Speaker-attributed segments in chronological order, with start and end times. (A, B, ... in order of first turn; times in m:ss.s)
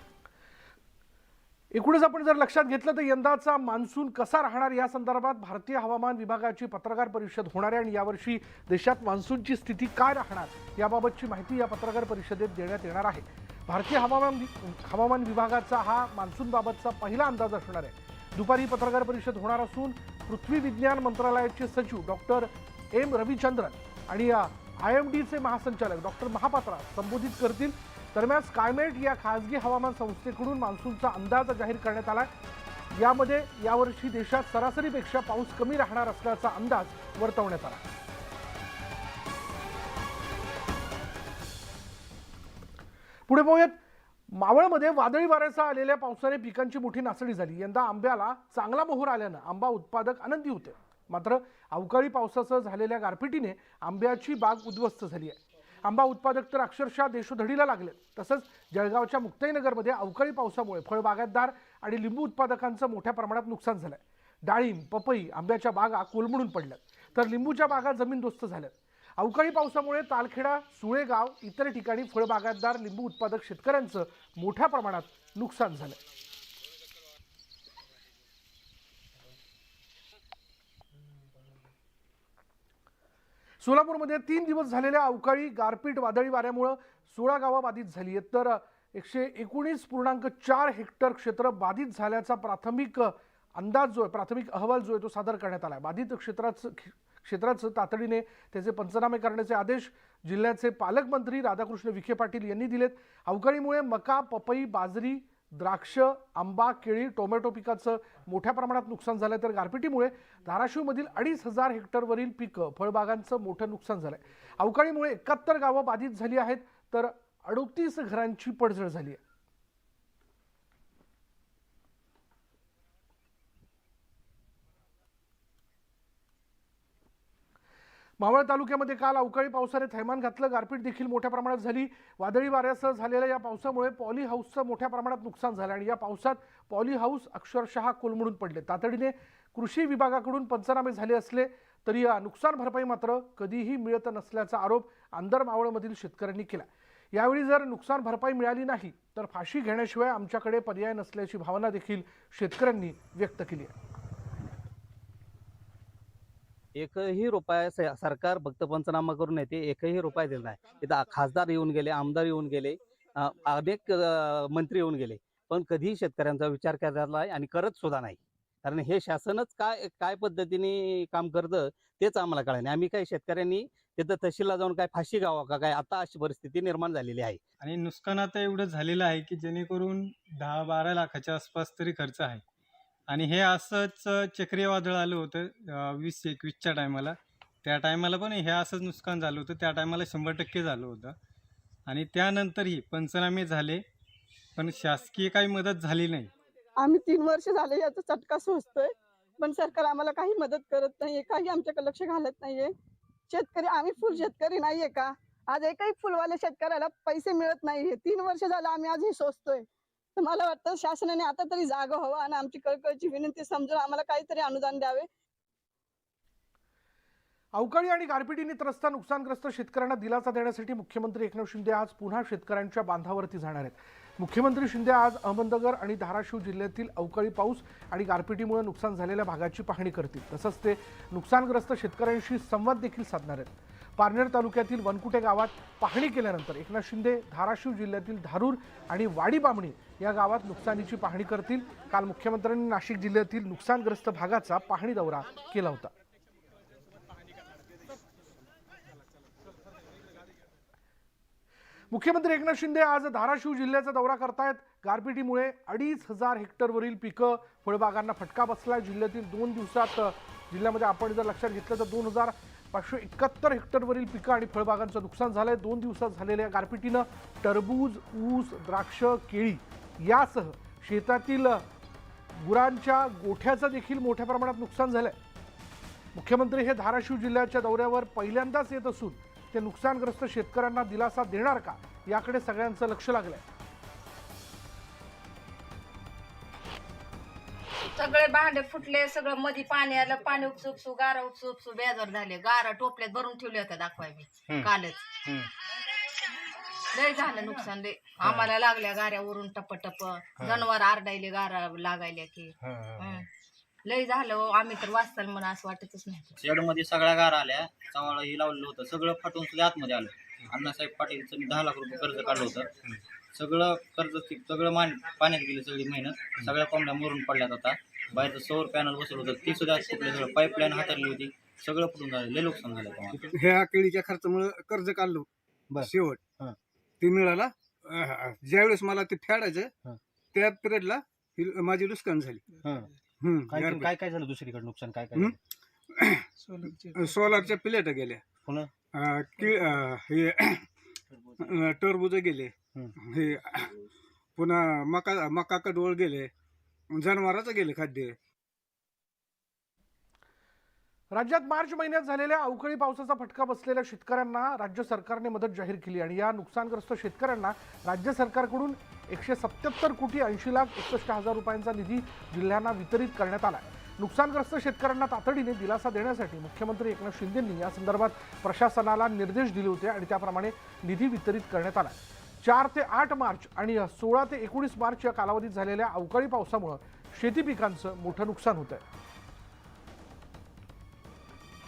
0:01.7-0:32.3 A
0:32.9-0:37.8 A
0:43.3-0:43.7 A
0:44.3-1:16.0 A
1:23.6-1:59.2 A
2:08.2-2:33.7 A
2:36.8-2:57.4 B
2:57.6-3:02.4 C
3:03.1-3:11.2 C
3:11.9-3:13.8 C
3:14.6-3:16.3 C
3:16.8-3:22.7 D
3:23.3-3:35.1 D
3:37.6-4:05.9 A
4:11.9-4:31.6 A
4:32.3-4:35.2 A
4:36.1-4:43.4 A
4:48.0-4:55.2 E
4:56.9-5:03.3 E
5:03.8-5:06.4 E
5:06.4-5:12.7 F
5:13.3-5:23.3 F
5:23.3-5:25.2 G
5:25.8-5:26.2 G
5:27.0-5:29.7 G
5:30.3-5:32.4 G
5:32.6-5:32.9 H
5:33.2-5:33.9 G
5:33.5-5:35.3 H
5:36.0-5:36.2 G
5:36.5-5:37.0 H
5:36.9-5:38.2 G
5:38.9-5:40.6 G
5:41.4-5:43.7 G
5:44.4-5:46.3 G
5:46.9-5:48.1 G
5:51.1-6:18.8 A